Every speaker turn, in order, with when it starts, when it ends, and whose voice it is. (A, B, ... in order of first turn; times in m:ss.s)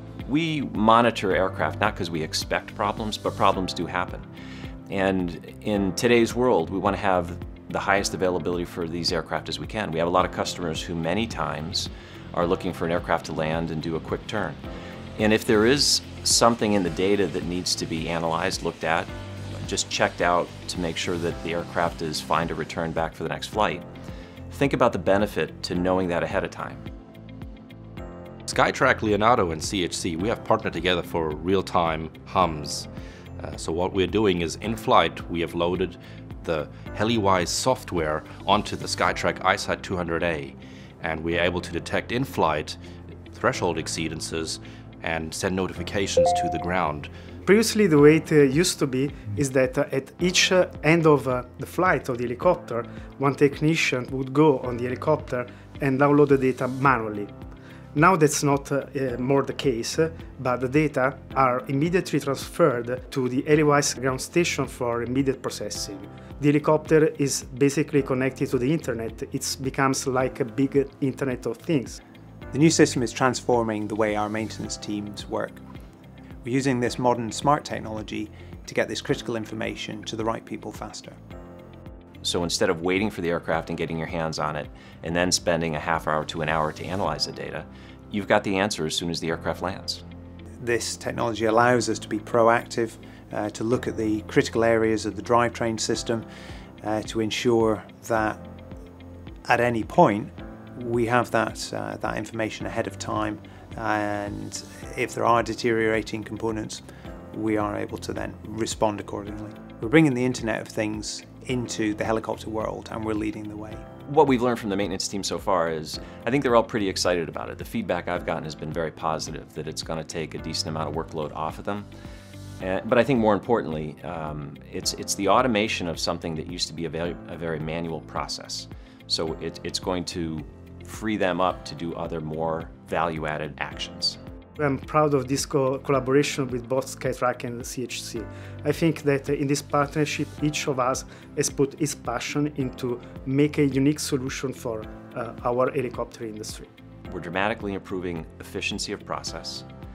0:00.3-0:04.3 A
0:04.9-0:14.6 A
0:15.2-0:19.1 A
0:19.6-0:23.9 A
0:24.5-0:26.8 A
0:28.5-0:32.9 B
0:33.4-0:42.8 B
0:43.3-0:47.1 B
0:47.4-0:57.3 C
0:58.0-1:12.0 C
1:12.5-1:15.6 D
1:16.4-1:21.2 D
1:22.2-1:30.0 A
1:30.6-1:36.2 D
1:36.8-1:38.4 D
1:39.5-1:53.9 D
1:54.1-2:01.9 A
2:02.6-2:14.2 A
2:14.6-2:26.7 C
2:27.1-2:29.6 A